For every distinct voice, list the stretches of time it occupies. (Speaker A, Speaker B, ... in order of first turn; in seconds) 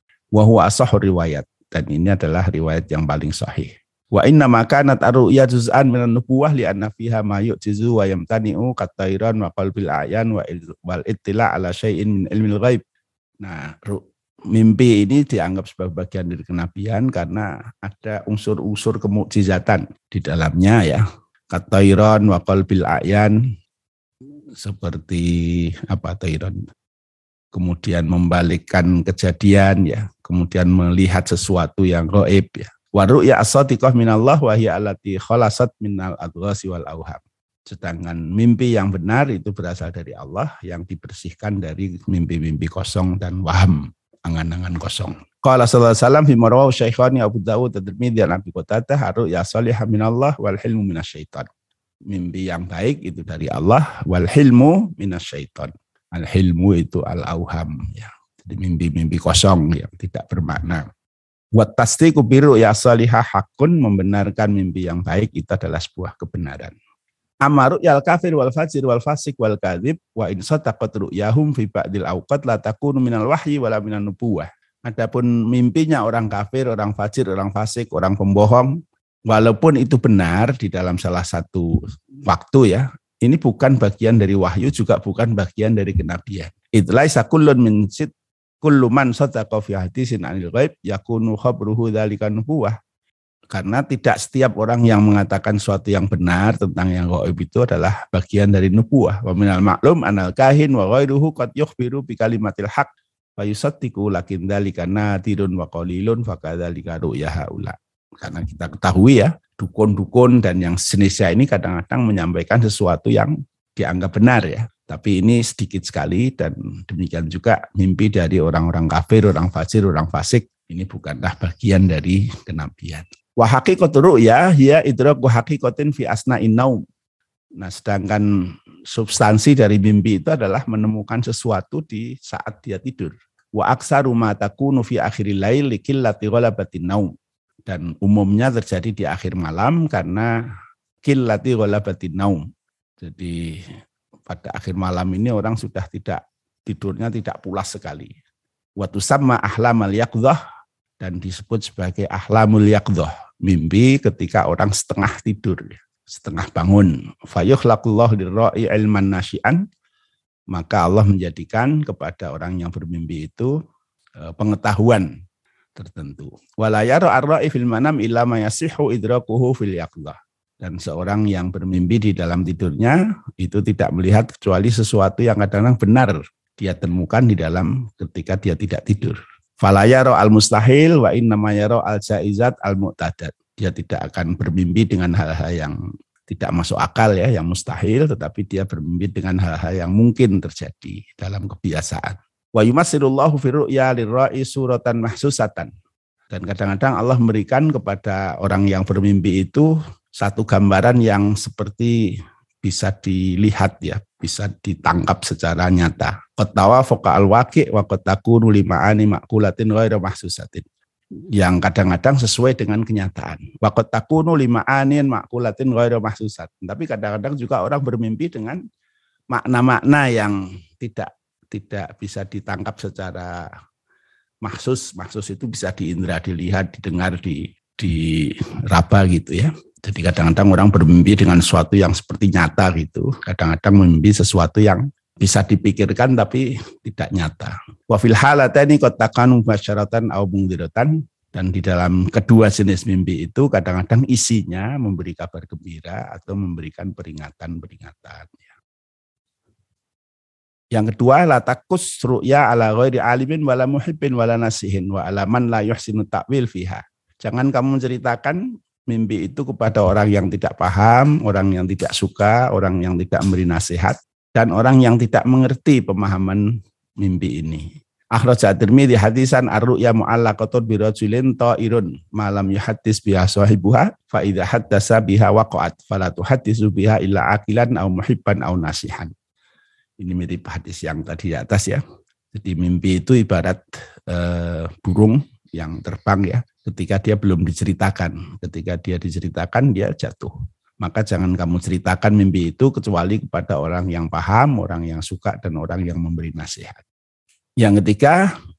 Speaker A: 0.3-12.8, 13.4-21.0, 21.5-23.4, 24.6-26.6, 27.5-51.5, 52.1-60.9, 61.5-66.7, 67.5-78.7, 79.3-81.7, 82.3-88.1, 88.6-92.8, 93.5-126.8, 127.6-128.3, 128.9-137.1, 137.7-140.3, 141.0-142.4, 143.0-143.6, 144.3-148.2, 148.8-150.4, 151.0-159.6, 160.5-163.5, 164.2-165.1, 165.8-185.8, 186.3-195.7, 196.3-201.9, 202.6-210.7, 211.4-218.6, 219.3-223.5, 224.4-248.5, 250.7-266.4, 267.0-267.6, 268.1-279.1, 280.0-281.8, 282.3-296.8, 297.6-298.2